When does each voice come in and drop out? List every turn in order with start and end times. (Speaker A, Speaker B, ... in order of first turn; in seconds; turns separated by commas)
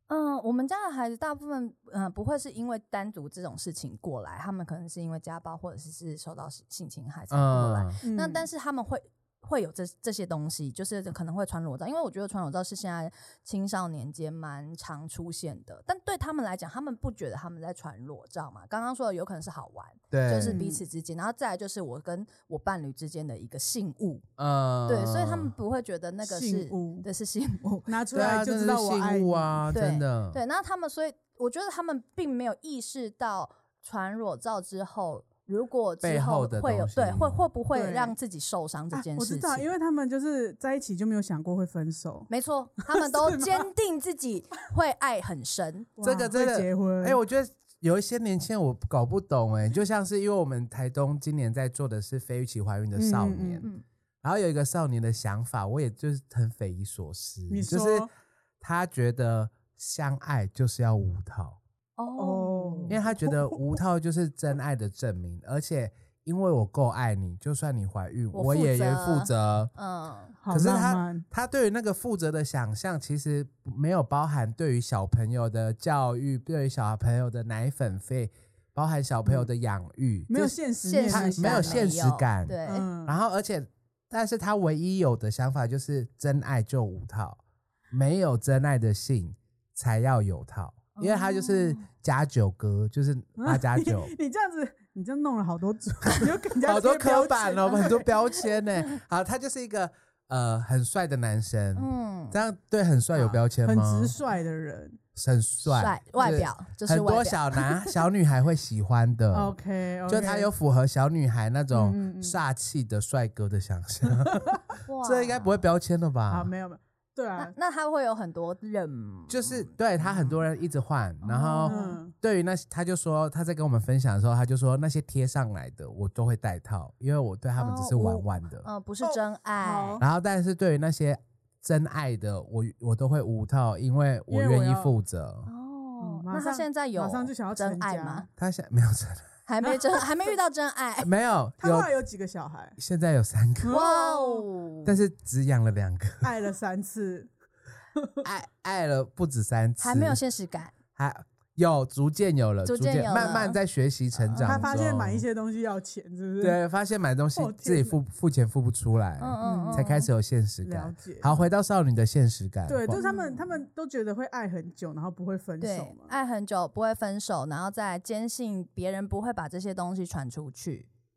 Speaker A: 0.1-24.2, Speaker B: 7.3-8.0, Speaker C: 8.0-8.5, Speaker B: 20.1-20.6, Speaker C: 20.4-20.8, Speaker B: 24.4-25.5, Speaker A: 24.9-28.4, Speaker C: 26.2-27.1, Speaker C: 27.9-29.7, Speaker B: 28.1-30.4, Speaker A: 29.7-39.7, Speaker B: 36.0-37.4, Speaker C: 37.7-38.1, Speaker C: 38.9-42.3, Speaker A: 42.3-45.9, Speaker C: 42.9-43.7, Speaker C: 46.0-47.2, Speaker B: 46.0-53.7, Speaker C: 53.0-53.7, Speaker B: 54.2-58.1, Speaker C: 57.5-58.1, Speaker B: 58.6-61.6, Speaker A: 62.0-63.0, Speaker C: 62.2-63.7, Speaker B: 62.9-69.7, Speaker A: 68.3-70.3, Speaker C: 70.4-71.3, Speaker B: 70.5-87.4, Speaker C: 80.3-81.9, Speaker A: 80.8-82.9, Speaker C: 82.7-83.1, Speaker B: 87.9-94.1, Speaker A: 91.0-91.9, Speaker C: 93.4-98.1, Speaker B: 96.2-104.1, Speaker A: 101.8-102.4, Speaker C: 103.2-105.0, Speaker B: 105.2-109.6, Speaker A: 105.7-107.9, Speaker C: 109.3-110.5, Speaker B: 110.1-116.5, Speaker C: 111.7-112.4, Speaker C: 114.3-114.6, Speaker A: 114.9-115.6, Speaker C: 116.3-117.5, Speaker A: 117.4-120.3, Speaker B: 119.3-128.7, Speaker A: 121.2-122.0, Speaker C: 121.6-122.1, Speaker A: 127.6-130.0, Speaker C: 129.0-130.0, Speaker B: 130.0-135.5, Speaker C: 134.3-134.9, Speaker A: 135.5-138.3, Speaker C: 136.0-138.3, Speaker B: 138.4-139.3, Speaker A: 139.5-141.1, Speaker C: 139.6-140.0, Speaker B: 141.0-141.9, Speaker C: 141.6-142.8, Speaker B: 142.8-143.8, Speaker C: 143.6-144.4, Speaker A: 143.7-144.9, Speaker B: 144.8-146.3, Speaker C: 146.2-147.3, Speaker C: 148.0-148.2, Speaker B: 148.2-150.2, Speaker A: 149.8-150.7, Speaker B: 151.0-155.2, Speaker A: 152.7-153.6, Speaker A: 154.4-154.8, Speaker C: 154.4-156.6, Speaker B: 156.4-163.0, Speaker C: 157.3-158.0, Speaker A: 159.2-160.1, Speaker C: 159.4-159.8, Speaker C: 160.6-161.3, Speaker C: 162.7-166.1, Speaker A: 163.0-163.6, Speaker A: 165.6-170.9